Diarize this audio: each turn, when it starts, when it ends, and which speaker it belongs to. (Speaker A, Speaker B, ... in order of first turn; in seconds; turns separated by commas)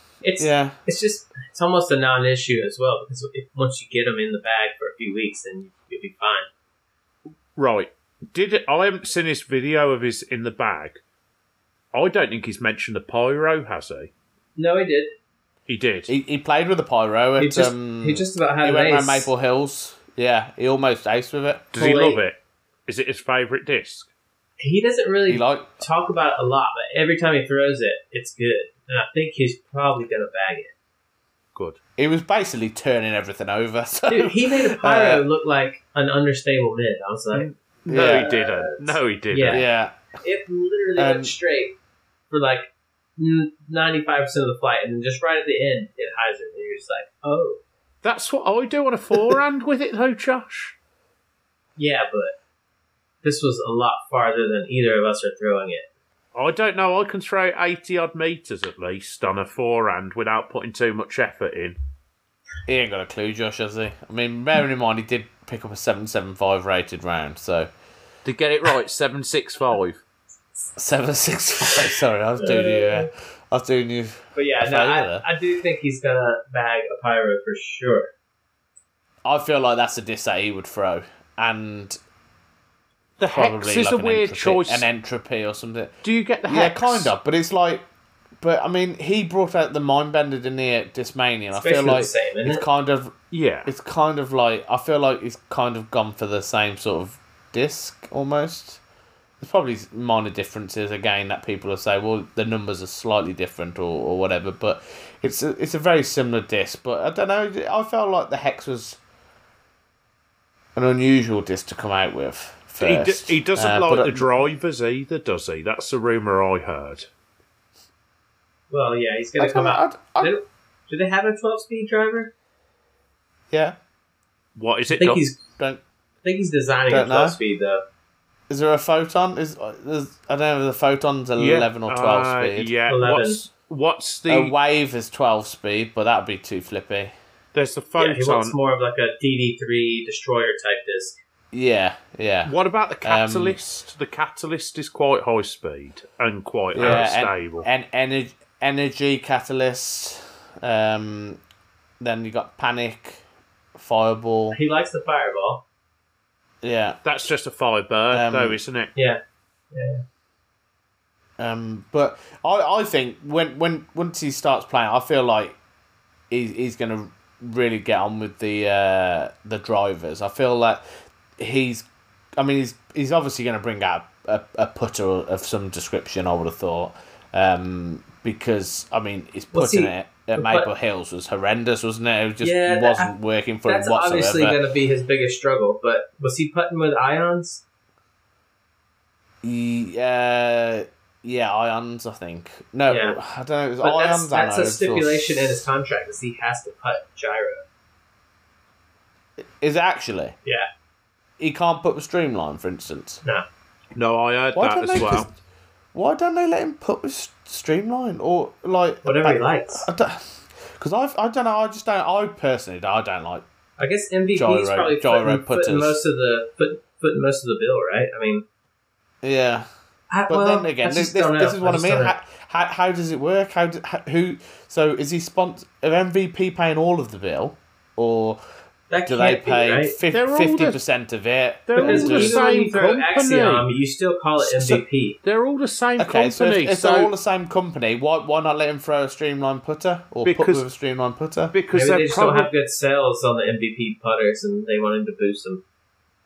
Speaker A: 0.2-6.5, Speaker B: 0.4-0.8, Speaker C: 7.5-11.0, Speaker C: 11.9-14.1, Speaker A: 14.6-15.1, Speaker C: 15.7-16.1, Speaker B: 16.1-21.7, Speaker A: 17.4-19.3, Speaker C: 21.7-24.1, Speaker A: 21.8-22.2, Speaker A: 24.6-30.7, Speaker B: 25.3-25.8, Speaker B: 32.0-35.2, Speaker A: 34.1-39.6, Speaker C: 37.3-39.6, Speaker B: 37.9-38.3, Speaker B: 39.5-40.0, Speaker A: 40.2-41.8, Speaker B: 41.0-41.3, Speaker A: 42.3-47.6, Speaker C: 48.0-50.8, Speaker A: 51.8-52.3, Speaker A: 53.2-55.9, Speaker C: 56.3-61.8, Speaker B: 62.7-67.7, Speaker C: 68.2-70.0, Speaker B: 70.8-75.2, Speaker A: 72.4-73.1, Speaker A: 74.3-78.1, Speaker B: 79.2-82.0, Speaker C: 83.2-84.8, Speaker B: 83.3-85.9, Speaker C: 86.0-87.1, Speaker B: 86.5-87.8, Speaker B: 88.4-93.1, Speaker A: 91.5-92.6, Speaker C: 93.3-93.7, Speaker B: 93.7-98.8, Speaker B: 99.4-109.0, Speaker B: 110.7-114.3, Speaker C: 112.8-117.1, Speaker A: 118.7-122.3, Speaker B: 119.4-120.3, Speaker B: 123.5-123.8, Speaker C: 124.5-125.2, Speaker A: 124.9-125.4, Speaker A: 126.2-127.8, Speaker B: 126.9-127.4, Speaker B: 128.5-132.7, Speaker C: 131.4-134.5, Speaker A: 132.9-133.4, Speaker B: 134.3-137.1, Speaker C: 137.5-138.6, Speaker A: 138.0-141.2, Speaker B: 141.5-143.6, Speaker C: 142.4-147.7, Speaker B: 146.7-151.4, Speaker B: 152.0-153.2, Speaker B: 153.8-154.6, Speaker A: 154.5-155.6, Speaker B: 156.6-157.0, Speaker C: 157.0-158.9, Speaker B: 158.1-158.6, Speaker A: 158.9-159.2, Speaker A: 159.7-160.0, Speaker B: 161.4-165.6, Speaker B: 166.3-170.8, Speaker B: 171.4-184.6, Speaker A: 179.5-180.7, Speaker A: 182.4-183.1, Speaker A: 183.7-187.6, Speaker B: 189.4-195.4, Speaker A: 192.9-193.2, Speaker A: 193.8-197.6, Speaker B: 199.6-200.3, Speaker B: 201.4-203.2, Speaker C: 203.9-205.3, Speaker B: 204.5-205.3, Speaker B: 205.9-213.4, Speaker A: 209.0-209.9, Speaker A: 213.8-218.4, Speaker B: 214.3-216.0, Speaker B: 219.2-219.7, Speaker A: 220.1-222.1, Speaker B: 220.3-228.4, Speaker A: 228.9-229.9, Speaker B: 229.1-232.4, Speaker C: 230.1-230.8, Speaker C: 231.7-233.7, Speaker A: 231.8-235.2, Speaker B: 234.4-234.8, Speaker C: 235.2-237.1, Speaker B: 236.0-241.5, Speaker C: 240.2-240.7, Speaker C: 241.5-242.5, Speaker A: 241.7-245.6